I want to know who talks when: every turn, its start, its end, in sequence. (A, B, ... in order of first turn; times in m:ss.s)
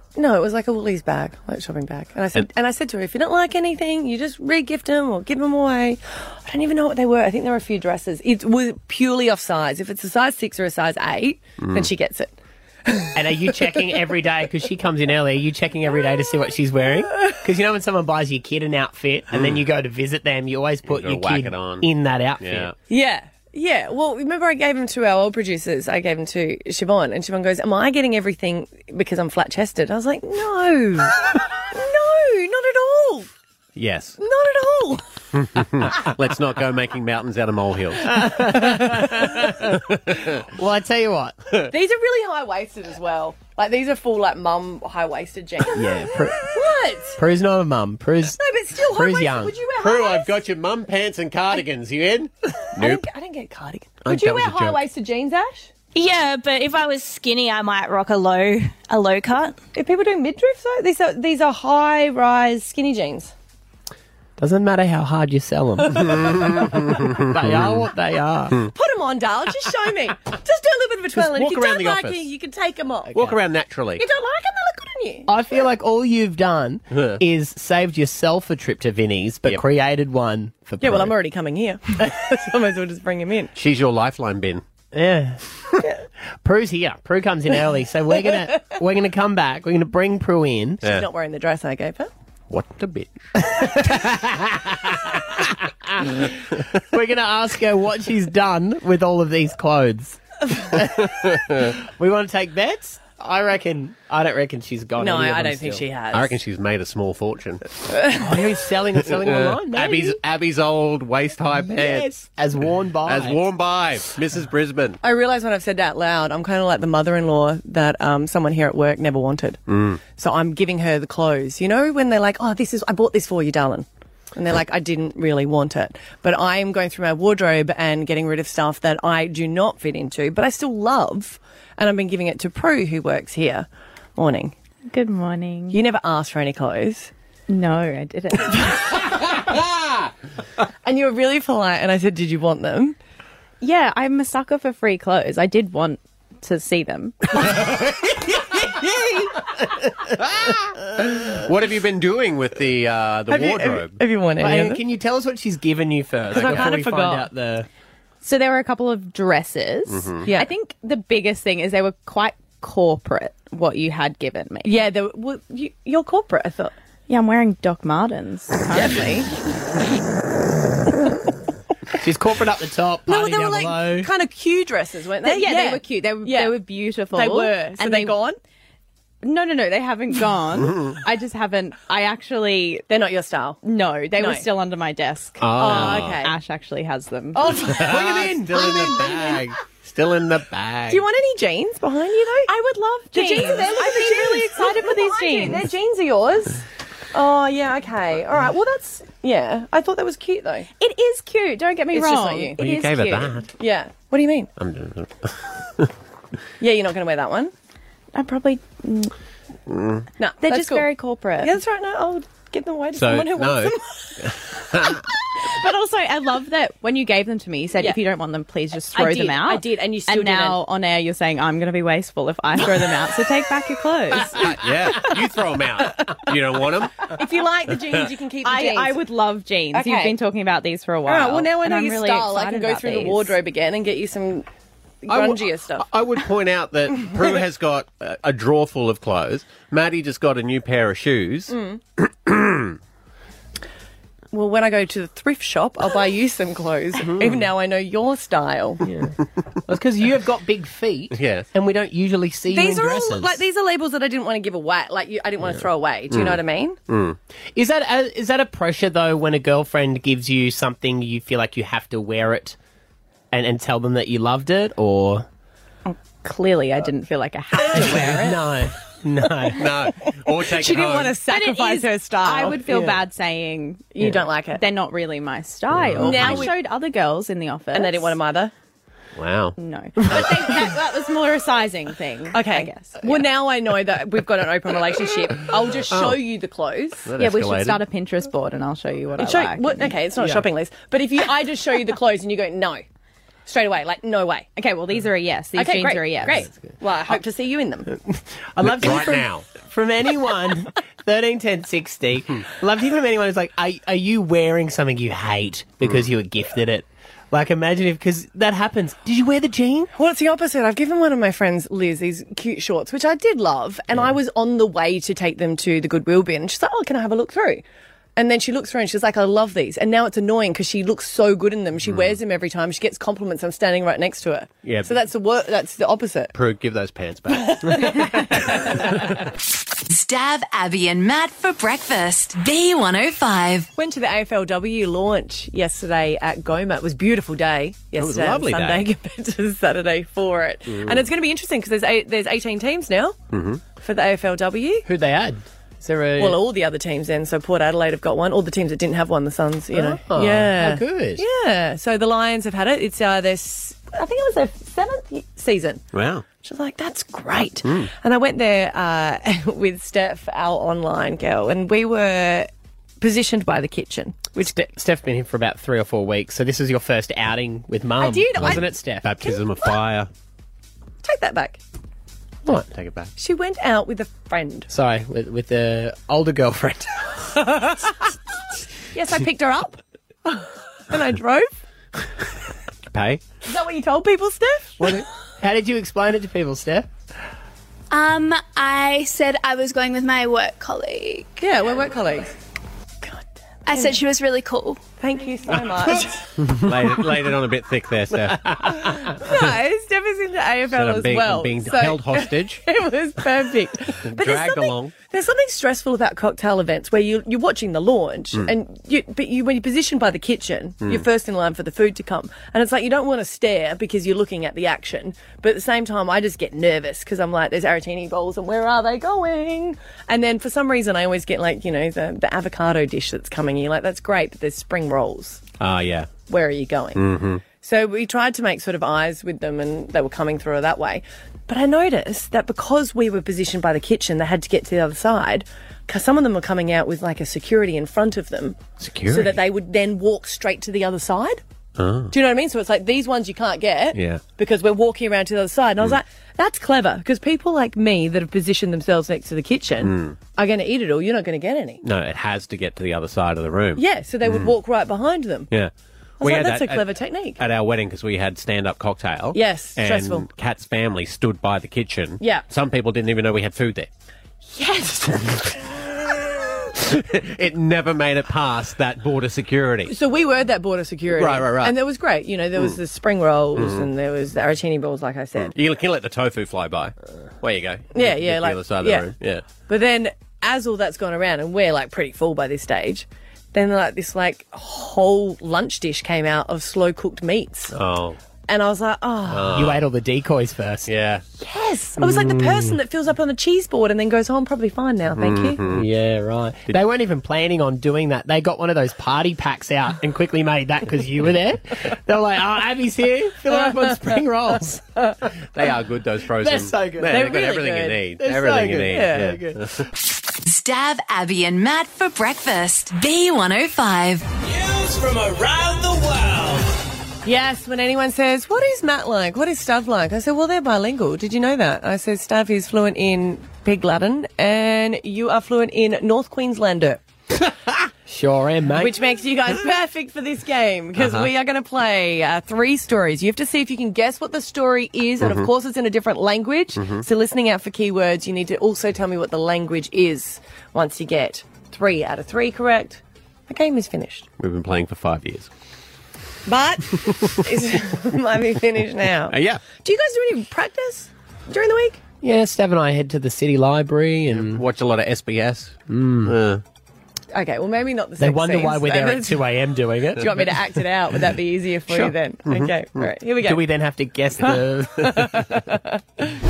0:00.2-0:12.3 A
0:11.6-0:11.9 B
0:12.8-0:13.2 A
0:13.1-0:22.7 C
0:19.3-0:19.6 B
0:20.8-0:21.9 B
0:22.4-0:22.7 B
0:22.9-0:33.3 A
0:33.8-0:34.2 B
0:34.2-0:35.0 A
0:35.3-0:38.3 B
0:38.0-0:39.7 C
0:39.9-0:40.4 B
0:40.5-0:41.4 C
0:41.7-0:47.2 A
0:45.7-0:46.4 C
0:47.2-0:48.4 C
0:48.3-0:50.3 A
0:48.9-0:49.5 C
0:49.8-0:53.0 B
0:52.7-0:55.7 A
0:54.0-0:54.8 B
0:56.0-0:59.5 D
0:59.7-1:03.3 A
1:04.4-1:08.6 C
1:06.0-1:07.9 B
1:08.7-1:13.3 A
1:11.1-1:12.2 B
1:13.1-1:14.0 B
1:14.0-1:15.3 A
1:15.3-1:21.1 C
1:16.9-1:17.2 B
1:20.8-1:23.5 A
1:23.5-1:24.6 B
1:24.9-1:25.4 C
1:26.4-1:30.8 C
1:30.8-1:32.1 A
1:32.5-1:33.2 B
1:33.4-1:34.8 C
1:35.8-1:36.3 C
1:36.9-1:40.2 C
1:40.7-1:41.1 C
1:41.3-1:41.6 B
1:42.0-1:45.8 C
1:45.0-1:46.3 A
1:46.1-1:47.6 B
1:47.9-1:48.2 A
1:48.2-1:50.2 C
1:49.0-1:52.2 B
1:51.6-1:53.4 C
1:53.0-1:55.0 B
1:55.0-1:59.6 A
1:59.7-2:00.0 B
2:00.1-2:14.5 A
2:14.9-2:15.8 E
2:15.7-2:17.1 A
2:17.5-2:18.7 E
2:20.8-2:23.0 A
2:23.6-2:27.4 E
2:30.2-2:34.0 B
2:33.3-2:34.8 A
2:34.4-2:37.7 C
2:36.3-2:37.3 A
2:36.3-2:36.7 B
2:38.2-2:44.8 E
2:39.9-2:40.3 B
2:40.2-2:40.5 A
2:44.6-2:46.7 A
2:47.1-2:49.3 E
2:48.7-2:49.0 A
2:52.0-2:54.1 C
2:53.0-2:56.6 A
2:55.2-2:58.2 E
2:57.1-2:58.4 A
2:59.2-3:02.8 E
3:00.6-3:00.9 B
3:02.9-3:03.6 A
3:03.6-3:07.5 E
3:04.1-3:04.4 A
3:05.4-3:06.2 B
3:05.6-3:06.3 A
3:07.3-3:09.4 A
3:07.5-3:11.0 B
3:07.9-3:08.2 C
3:10.9-3:12.6 A
3:12.5-3:15.7 E
3:13.1-3:20.7 A
3:20.8-3:23.4 E
3:21.9-3:22.6 A
3:22.6-3:23.5 B
3:23.6-3:24.5 A
3:24.6-3:25.9 B
3:26.6-3:27.5 A
3:28.1-3:29.1 E
3:29.7-3:30.1 B
3:30.2-3:34.1 A
3:30.4-3:31.6 E
3:33.0-3:35.0 B
3:35.5-3:44.4 E
3:38.9-3:40.6 A
3:44.2-3:47.1 B
3:47.0-3:49.0 A
3:48.4-3:53.4 E
3:49.7-3:50.2 A
3:51.0-3:54.5 A
3:55.0-3:55.8 A
3:55.1-4:01.5 B
4:01.5-4:01.8 A
4:02.2-4:02.7 B
4:04.3-4:08.8 A
4:07.1-4:07.3 C
4:08.8-4:09.1 C
4:09.7-4:13.4 C
4:11.1-4:11.5 B
4:12.5-4:16.8 A
4:16.1-4:17.2 B
4:17.5-4:22.6 C
4:23.3-4:25.3 C
4:25.9-4:28.4 E
4:27.7-4:29.6 C
4:27.7-4:28.0 A
4:29.5-4:31.2 B
4:30.5-4:32.7 A
4:31.2-4:38.2 E
4:32.6-4:33.0 C
4:33.9-4:34.6 A
4:35.7-4:36.5 B
4:36.0-4:36.5 A
4:37.7-4:38.5 A
4:39.1-4:39.6 B
4:39.6-4:43.1 E
4:42.3-4:47.1 A
4:45.9-4:46.2 B
4:47.0-4:47.8 B
4:47.2-4:50.0 E
4:49.2-4:52.8 A
4:50.2-4:50.4 C
4:53.5-4:54.5 A
4:54.6-4:56.5 E
4:55.6-4:57.9 A
4:56.3-4:56.6 C
4:58.1-5:09.9 C
4:58.6-4:59.5 B
5:05.8-5:06.1 B
5:09.9-5:17.6 A
5:18.2-5:26.3 A
5:21.8-5:22.2 B
5:24.6-5:25.0 B
5:26.3-5:28.8 B
5:27.5-5:28.8 A
5:29.9-5:33.7 F
5:33.8-5:43.2 A
5:38.0-5:38.9 B
5:40.7-5:41.0 B
5:43.3-5:43.6 B
5:43.8-5:44.8 A
5:44.8-5:46.4 C
5:46.2-5:55.8 A
5:49.7-5:51.2 C
5:55.9-5:56.2 B
5:56.4-6:02.5 A
5:57.6-5:57.9 B
6:03.0-6:04.6 A
6:04.4-6:09.1 C
6:08.0-6:08.7 A
6:08.4-6:10.1 B
6:11.0-6:11.6 A
6:12.7-6:13.1 B
6:13.2-6:14.7 A
6:14.7-6:16.9 C
6:18.9-6:21.5 A
6:22.9-6:23.2 B
6:23.4-6:24.8 A
6:24.8-6:26.9 C
6:27.9-6:31.1 D
6:28.6-6:31.2 G
6:31.4-6:32.4 A
6:33.0-6:34.0 A
6:33.7-6:34.5 D
6:33.7-6:34.8 G
6:35.0-6:36.2 A
6:36.5-6:39.3 B
6:38.6-7:05.4 A
6:40.7-6:42.6 B
6:44.0-6:44.9 B
7:05.6-7:06.1 B
7:06.3-7:07.0 A
7:07.0-7:07.4 B
7:07.6-7:21.4 A
7:18.8-7:19.4 B
7:21.8-7:22.1 B
7:22.1-7:31.8 A
7:23.9-7:24.2 B
7:29.8-7:30.2 B
7:31.8-7:34.5 B
7:33.8-7:35.5 A
7:35.5-7:43.9 B
7:36.2-7:37.4 A
7:39.3-7:40.3 A
7:44.5-7:45.7 A
7:46.7-7:49.9 B
7:49.9-7:55.5 A
7:51.1-7:51.8 B
7:53.5-7:53.9 B
7:55.4-7:59.4 B
7:57.9-7:59.1 A
7:59.6-8:07.7 A
8:07.7-8:08.2 B
8:08.5-8:09.7 A
8:09.3-8:09.8 B
8:09.5-8:10.9 C
8:10.8-8:11.2 B
8:11.4-8:15.6 A
8:15.2-8:15.9 B
8:15.7-8:24.8 C
8:25.5-8:29.8 B
8:26.4-8:27.2 C
8:27.0-8:28.0 A
8:28.2-8:29.6 C
8:28.8-8:29.4 A
8:30.4-8:34.2 F
8:34.4-8:36.7 H
8:37.2-8:47.0 A
8:48.1-8:48.9 C
8:48.8-9:04.3 A
8:51.0-8:51.3 B
8:55.2-8:55.5 B
8:56.8-8:57.0 B
9:04.4-9:05.5 B
9:06.4-9:12.0 A
9:09.3-9:09.6 B
9:12.2-9:14.6 C
9:14.3-9:16.6 B
9:15.9-9:16.3 C
9:17.3-9:19.4 A
9:18.2-9:20.3 C
9:20.2-9:23.6 A
9:21.9-9:23.0 B
9:23.4-9:25.2 C
9:24.4-9:26.0 A